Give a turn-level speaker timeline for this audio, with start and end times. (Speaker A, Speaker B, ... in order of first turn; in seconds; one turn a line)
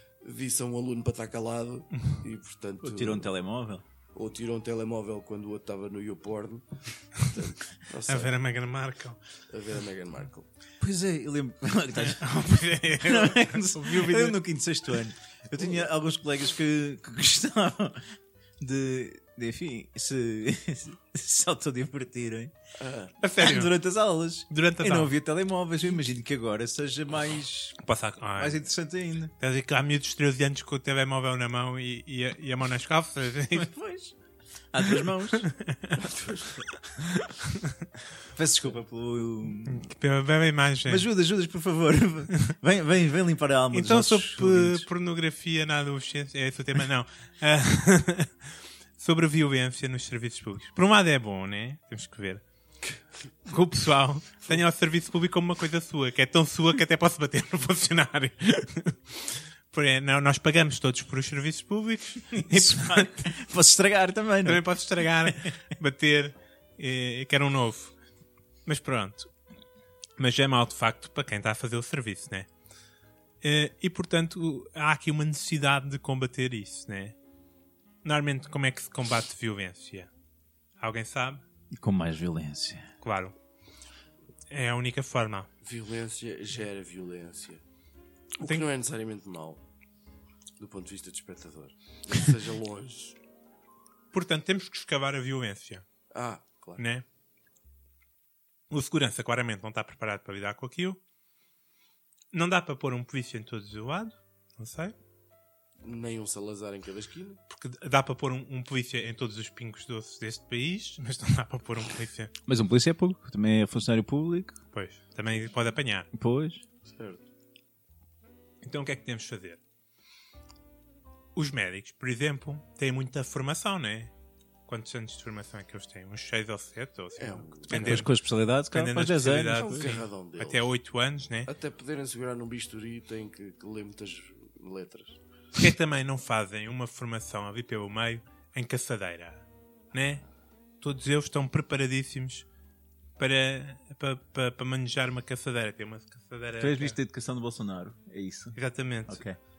Speaker A: 0.2-3.3
Speaker B: 2.8-3.8
Speaker A: 4.1-8.3
Speaker C: 8.1-9.2
Speaker A: 9.5-10.4
Speaker B: 10.8-12.4
Speaker C: 12.0-14.4
Speaker B: 13.0-18.1
Speaker B: 18.6-22.5
Speaker A: 22.8-23.1
Speaker C: 23.2-23.7
Speaker B: 23.4-27.8
Speaker C: 24.5-25.1
Speaker C: 27.8-28.6
Speaker B: 28.4-29.3
Speaker C: 29.4-33.7
Speaker B: 33.5-34.1
Speaker B: 34.7-35.5
Speaker C: 35.3-36.0
Speaker A: 36.0-36.5
Speaker C: 37.0-37.7
Speaker B: 38.3-39.9
Speaker C: 39.6-41.1
Speaker B: 40.9-44.9
Speaker C: 43.7-48.3
Speaker C: 49.0-52.4
Speaker C: 53.5-63.3
Speaker B: 62.5-64.6
Speaker C: 64.4-67.9
Speaker B: 65.2-65.5
Speaker C: 68.7-69.3
Speaker C: 70.2-72.5
Speaker C: 73.4-77.1
Speaker C: 78.0-80.1
Speaker C: 80.8-81.4
Speaker B: 81.7-82.9
Speaker C: 83.0-83.3
Speaker C: 84.5-85.5
Speaker A: 85.6-87.6
Speaker A: 88.4-89.6
Speaker C: 88.4-88.7
Speaker A: 90.6-93.2
Speaker C: 94.1-95.8
Speaker A: 96.1-96.8
Speaker C: 96.8-97.0
Speaker C: 98.7-101.0
Speaker C: 102.3-104.9
Speaker A: 105.8-107.4
Speaker C: 107.5-112.3
Speaker B: 112.5-114.6
Speaker C: 114.7-116.1
Speaker B: 116.1-116.6
Speaker A: 116.9-117.2
Speaker C: 118.6-119.6
Speaker C: 121.3-124.1
Speaker C: 124.7-128.1
Speaker A: 127.2-128.0
Speaker B: 127.7-129.9
Speaker C: 128.7-131.5
Speaker A: 129.5-130.7
Speaker A: 131.4-135.2
Speaker C: 135.6-140.2
Speaker C: 140.8-142.4
Speaker C: 143.2-147.0
Speaker B: 146.6-149.4
Speaker C: 148.5-149.2